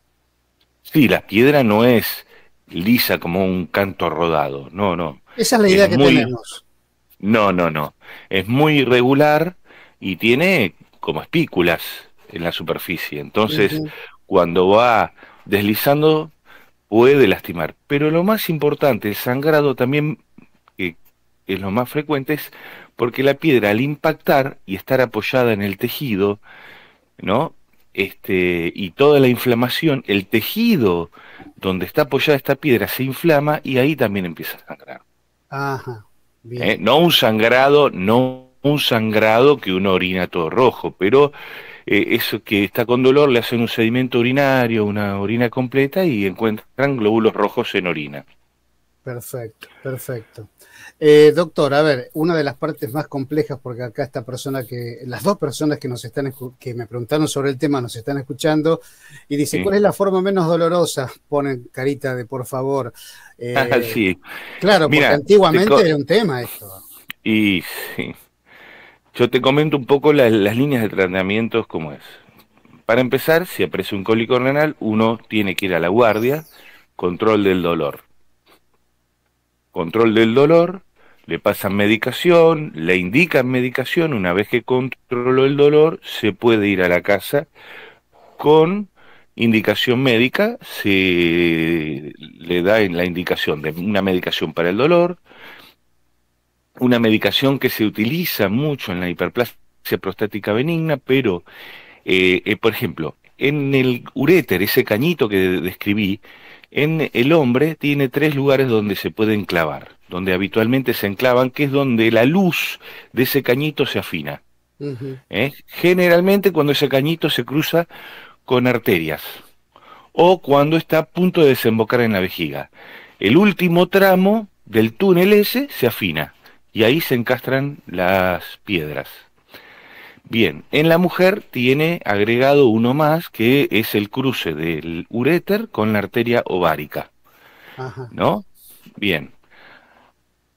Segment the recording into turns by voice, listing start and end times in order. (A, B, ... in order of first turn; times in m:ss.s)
0:00.8-0:06.3 A
0:05.4-0:06.6 B
0:07.2-0:16.3 A
0:13.5-0:13.9 B
0:16.9-0:20.2 A
0:20.8-0:26.4 A
0:27.2-0:35.0 A
0:35.5-0:36.8 B
0:36.6-0:41.3 A
0:41.8-0:48.2 A
0:49.0-1:04.0 B
1:03.5-1:04.2 A
1:04.6-1:06.8 B
1:04.8-1:05.9 A
1:07.2-1:08.1 A
1:09.1-1:12.2 A
1:12.9-1:16.5 A
1:17.0-1:18.0 A
1:19.7-1:27.5 A
1:28.4-1:35.2 A
1:36.8-1:41.4 A
1:42.0-1:54.4 A
1:54.8-1:55.2 B
1:55.3-1:57.9 A
1:58.4-1:59.4 A
2:00.1-2:09.2 A
2:10.3-2:17.1 A
2:17.8-2:18.1 B
2:18.1-2:18.4 A
2:19.0-2:19.3 A